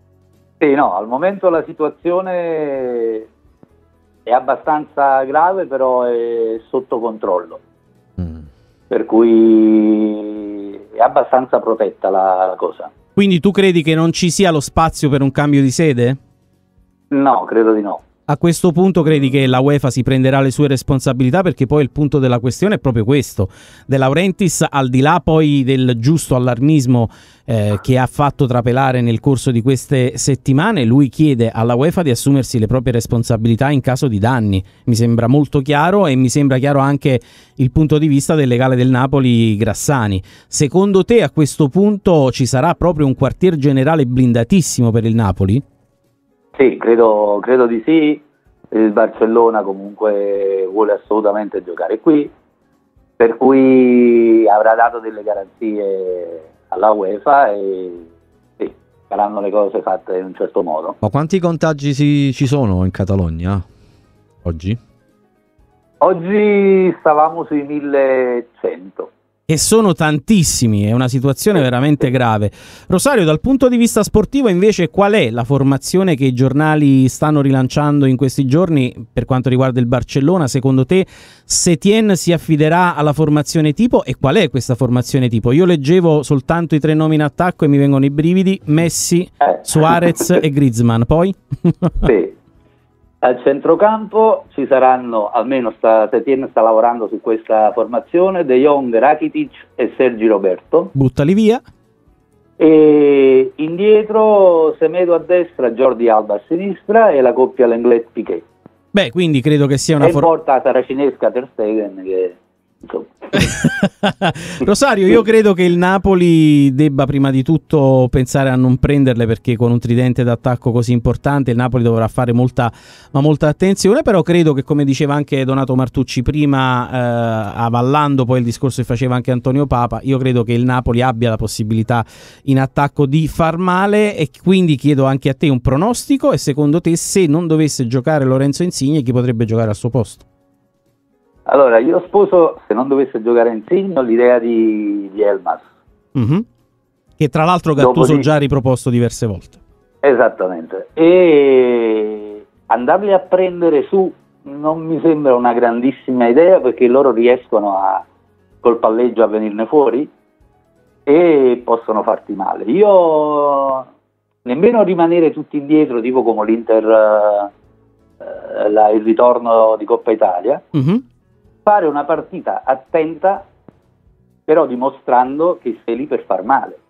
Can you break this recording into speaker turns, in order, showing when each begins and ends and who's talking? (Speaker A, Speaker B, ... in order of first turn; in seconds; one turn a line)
Speaker A: 0.6-3.3
Speaker A: 4.3-7.6
Speaker A: 8.9-12.9
Speaker B: 13.2-16.2
Speaker A: 17.1-18.0
Speaker B: 18.3-45.6
Speaker A: 46.6-52.3
Speaker A: 53.2-58.1
Speaker A: 58.6-61.0
Speaker C: 61.0-63.6
Speaker C: 64.5-64.8
Speaker A: 66.0-69.1
Speaker B: 69.5-92.1
Speaker A: 89.4-90.1
Speaker A: 92.0-92.4
Speaker A: 93.2-100.9
Speaker B: 101.0-101.6
Speaker A: 102.6-108.4
Speaker B: 108.9-110.3
Speaker A: 110.0-113.4
Speaker B: 113.3-140.2
Speaker A: 141.5-145.7
Speaker B: 146.2-146.4
Speaker B: 147.2-149.6
Speaker A: 147.8-148.3
Speaker A: 150.0-158.0
Speaker A: 158.6-160.1
Speaker A: 161.1-163.8
Speaker A: 164.5-167.5
Speaker A: 168.2-170.6
Speaker B: 170.7-171.0
Speaker A: 171.7-173.5
Speaker A: 174.5-176.8